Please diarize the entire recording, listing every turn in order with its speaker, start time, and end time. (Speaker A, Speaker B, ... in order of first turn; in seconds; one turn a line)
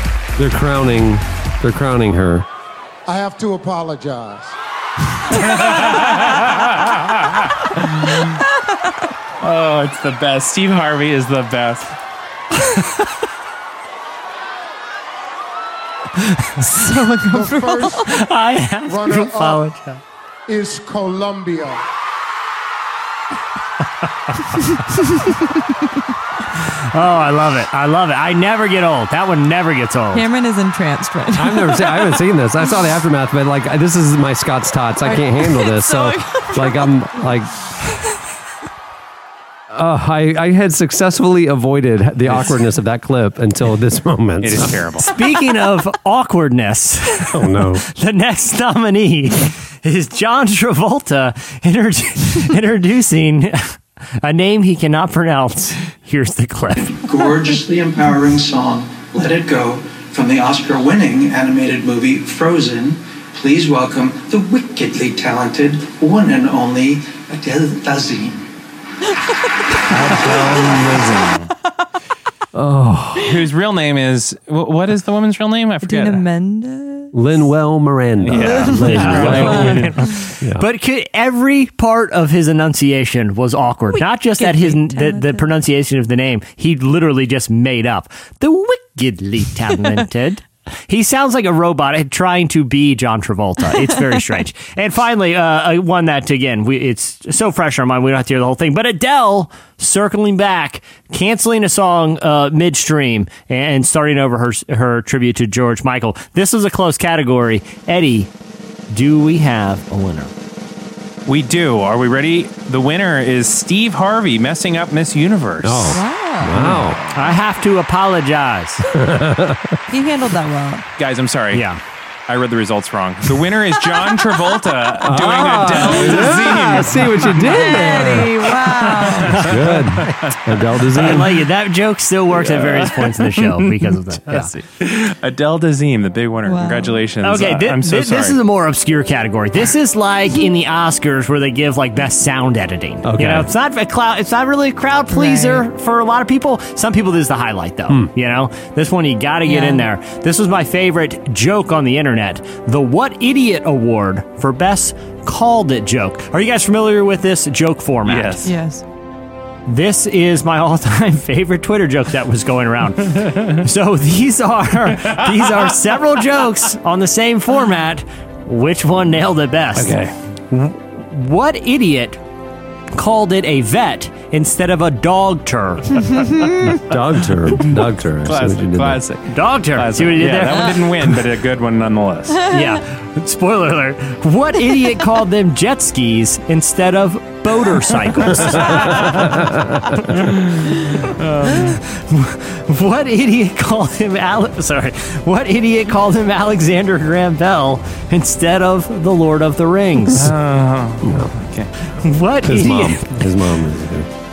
Speaker A: 0.4-2.5
Speaker B: 3.0-4.5
Speaker C: 5.3-8.4
Speaker C: 9.4-11.9
Speaker D: 16.6-18.1
Speaker B: 17.3-18.1
Speaker E: 18.0-20.0
Speaker B: 18.9-19.7
Speaker B: 20.5-21.8
Speaker D: 24.8-25.5
Speaker E: 26.6-30.2
Speaker D: 30.1-32.2
Speaker A: 31.4-37.5
Speaker D: 35.0-37.3
Speaker A: 39.7-44.8
Speaker C: 44.4-45.1
Speaker E: 45.0-57.0
Speaker A: 47.3-47.8
Speaker F: 56.8-68.4
Speaker C: 69.9-71.5
Speaker A: 70.2-70.7
Speaker D: 70.5-70.7
Speaker A: 72.5-73.5
Speaker C: 73.2-76.2
Speaker D: 75.8-77.2
Speaker A: 77.1-80.6
Speaker C: 78.2-79.9
Speaker D: 78.3-79.9
Speaker E: 78.8-108.3
Speaker D: 83.9-85.5
Speaker E: 108.9-110.3
Speaker C: 111.3-116.0
Speaker A: 115.6-117.0
Speaker D: 115.9-116.6
Speaker C: 116.5-117.3
Speaker E: 117.1-118.8
Speaker A: 118.9-119.8
Speaker D: 119.9-120.8
Speaker C: 121.0-121.7
Speaker E: 121.5-121.8
Speaker C: 122.3-127.8
Speaker A: 125.0-128.5
Speaker D: 126.1-126.7
Speaker D: 127.4-129.4
Speaker C: 128.8-130.4
Speaker E: 129.3-130.1
Speaker A: 129.4-131.3
Speaker C: 130.9-131.2
Speaker E: 130.9-134.5
Speaker C: 132.3-138.4
Speaker D: 136.4-137.0
Speaker E: 137.2-158.4
Speaker A: 143.0-143.5
Speaker D: 145.1-145.7
Speaker D: 149.4-149.9
Speaker C: 158.1-158.5
Speaker D: 158.4-158.8
Speaker E: 159.7-169.9
Speaker C: 163.1-163.6
Speaker C: 165.1-165.7
Speaker C: 169.8-170.1
Speaker E: 170.5-172.2
Speaker E: 172.9-176.0
Speaker A: 176.7-179.1
Speaker C: 177.6-182.4
Speaker E: 179.3-180.9
Speaker D: 182.4-182.8
Speaker E: 182.5-189.3
Speaker C: 188.3-189.4
Speaker C: 190.2-191.7
Speaker E: 191.2-200.3
Speaker C: 200.1-201.7
Speaker A: 201.0-201.3
Speaker E: 202.0-203.2
Speaker A: 202.4-204.1